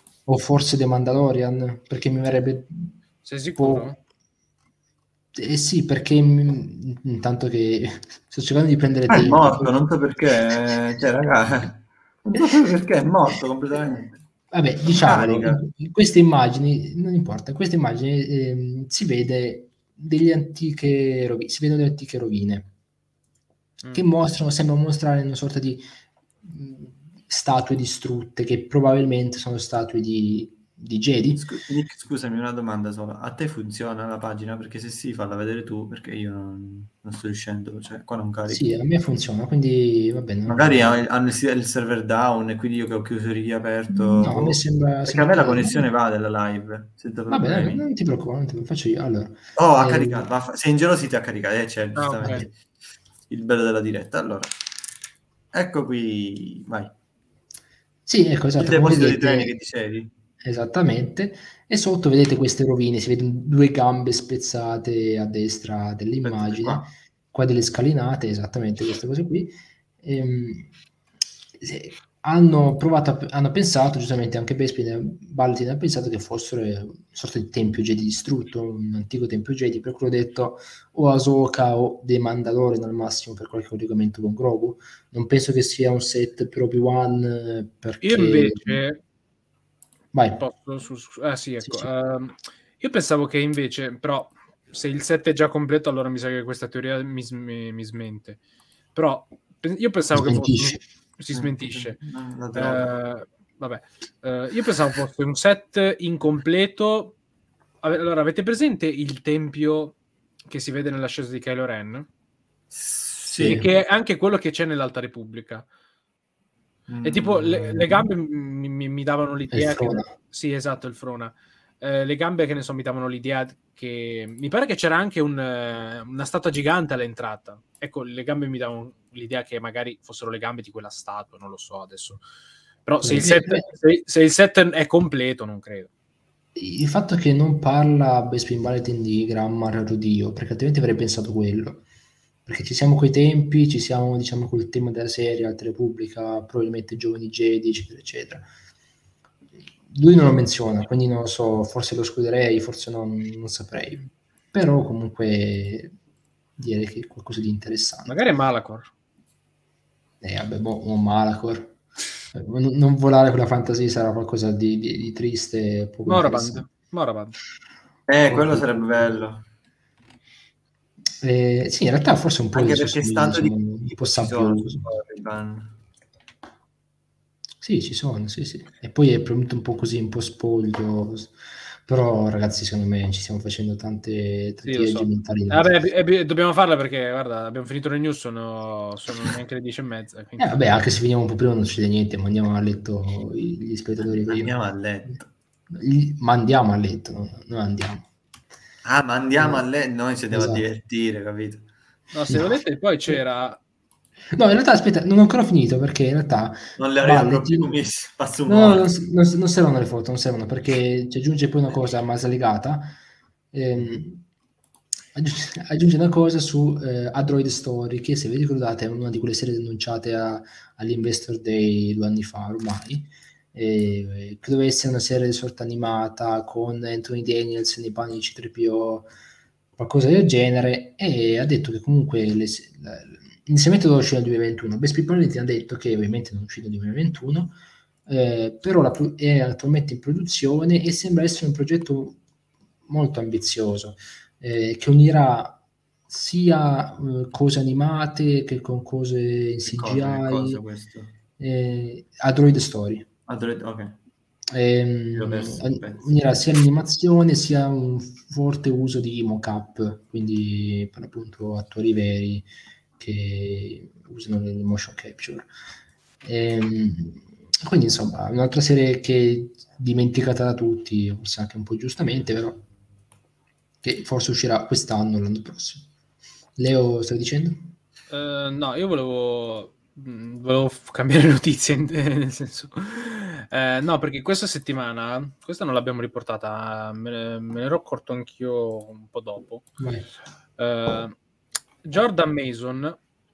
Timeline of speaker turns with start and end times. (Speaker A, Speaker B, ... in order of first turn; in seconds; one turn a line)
Speaker A: 0.3-3.0
Speaker B: 3.2-4.0
Speaker A: 3.6-3.9
Speaker A: 5.3-9.8
Speaker C: 9.1-14.2
Speaker A: 14.5-22.7
Speaker C: 14.9-15.6
Speaker B: 23.8-24.1
Speaker A: 23.9-25.9
Speaker A: 26.4-31.5
Speaker C: 31.4-38.6
Speaker A: 38.5-41.0
Speaker C: 40.5-47.8
Speaker A: 44.0-45.9
Speaker A: 47.3-50.3
Speaker C: 49.6-52.5
Speaker B: 52.0-52.5
Speaker C: 53.3-54.5
Speaker C: 55.5-56.9
Speaker A: 58.1-59.5
Speaker C: 58.6-60.1
Speaker A: 60.4-70.7
Speaker C: 66.2-66.8
Speaker A: 71.6-88.8
Speaker B: 88.0-89.0
Speaker A: 90.1-90.4
Speaker B: 90.4-98.4
Speaker A: 91.6-91.9
Speaker B: 99.0-102.0
Speaker A: 100.1-100.8
Speaker C: 101.3-102.9
Speaker B: 102.5-107.2
Speaker B: 107.8-110.0
Speaker B: 110.5-112.1
Speaker C: 112.7-113.7
Speaker A: 113.3-113.7
Speaker B: 113.4-115.7
Speaker C: 116.9-118.1
Speaker B: 117.0-132.2
Speaker A: 119.5-120.1
Speaker B: 132.9-135.9
Speaker A: 133.0-133.7
Speaker A: 136.6-141.8
Speaker A: 142.5-148.5
Speaker A: 149.9-155.9
Speaker A: 156.6-158.2
Speaker B: 158.1-158.9
Speaker A: 160.2-161.8
Speaker A: 162.3-166.7
Speaker B: 166.1-167.3
Speaker C: 168.1-169.4
Speaker A: 168.3-169.3
Speaker A: 171.2-174.8
Speaker C: 172.5-175.8
Speaker A: 177.6-181.3
Speaker A: 181.9-185.8
Speaker B: 184.6-190.6
Speaker A: 190.4-194.5
Speaker C: 194.0-195.3
Speaker A: 195.7-198.1
Speaker C: 198.8-201.7
Speaker A: 199.4-199.6
Speaker A: 200.3-200.7
Speaker B: 202.1-203.6
Speaker A: 202.3-202.6
Speaker A: 204.3-207.7
Speaker C: 206.8-208.9
Speaker A: 208.5-213.0
Speaker A: 213.5-214.2
Speaker A: 215.2-229.1
Speaker A: 229.8-242.2
Speaker A: 242.9-250.6
Speaker C: 249.7-251.1
Speaker A: 251.4-253.1
Speaker C: 253.3-254.0
Speaker A: 254.5-262.5
Speaker C: 255.2-256.1
Speaker A: 263.0-265.5
Speaker A: 266.2-272.6
Speaker A: 273.8-275.9
Speaker A: 276.6-277.7
Speaker B: 278.1-289.6
Speaker A: 289.8-290.1
Speaker B: 290.6-291.2
Speaker B: 291.9-293.0